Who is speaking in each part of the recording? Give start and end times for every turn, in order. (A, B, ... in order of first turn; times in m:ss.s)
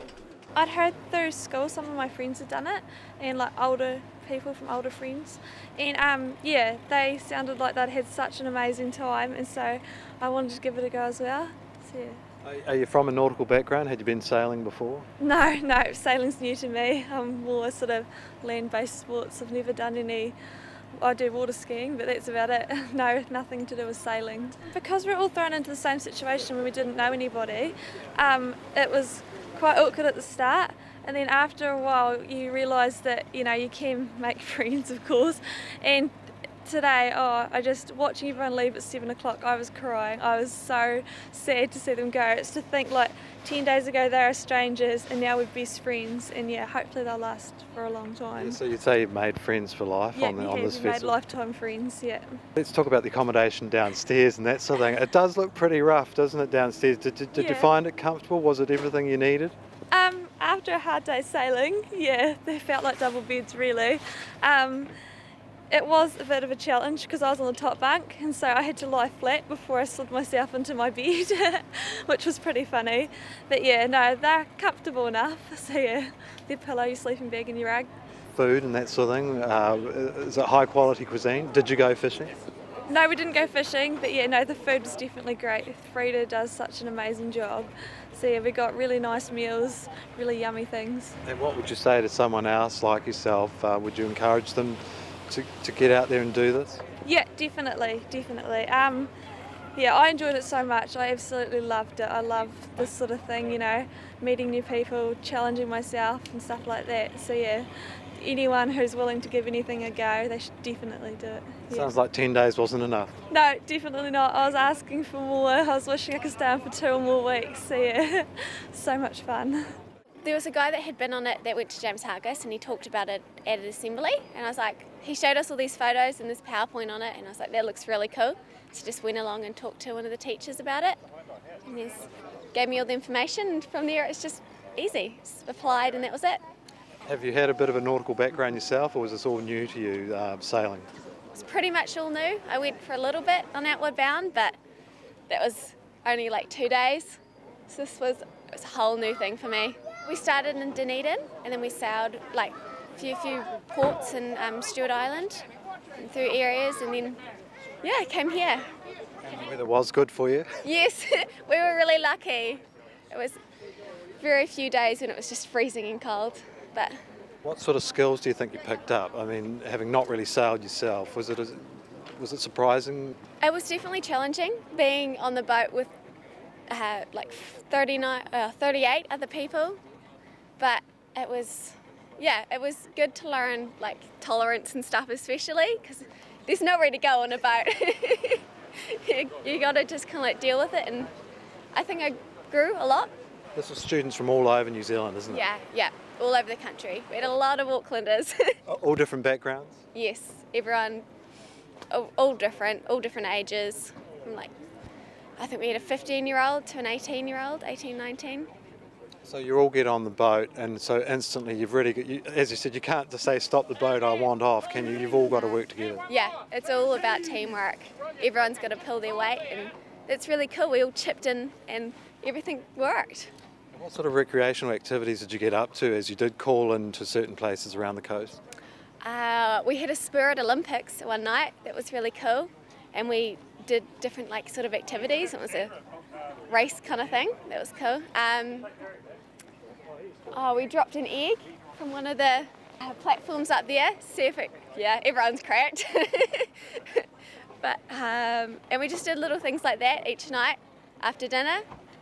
0:00.5-0:12.2 A
0:12.4-0:15.1 B
0:15.2-0:20.4 A
0:21.0-0:48.6 A
0:48.4-0:51.2 B
0:50.1-0:52.4 A
0:52.6-0:59.6 B
0:57.3-0:57.7 A
0:59.9-1:04.9 A
1:05.7-1:17.9 A
1:18.3-1:22.4 B
1:22.9-1:31.2 A
1:31.2-1:36.8 B
1:37.0-1:39.1 A
1:39.8-1:51.9 A
1:51.7-1:53.1 B
1:53.3-1:59.7 A
2:00.2-2:11.0 C
2:11.6-2:16.4 C
2:17.0-2:20.9 B
2:21.3-2:24.6 C
2:25.3-2:35.4 C
2:35.9-2:37.2 C
2:37.8-2:38.6 C
2:39.2-2:40.5 B
2:40.6-2:43.4 C
2:44.2-2:47.0 C
2:47.4-2:53.2 B
2:53.4-2:55.9 C
2:56.7-2:59.8 C
3:00.6-3:11.1 C
3:11.7-3:13.1 C
3:13.5-3:15.4 B
3:15.3-3:18.6 C
3:18.7-3:19.8 B
3:19.9-3:21.0 C
3:21.9-3:24.5 C
3:25.4-3:28.5 C
3:29.2-3:36.0 B
3:36.1-3:43.3 C
3:43.7-3:48.4 B
3:49.0-3:55.7 C
3:56.5-3:58.7 C
4:00.3-4:07.0 C
4:07.6-4:11.6 C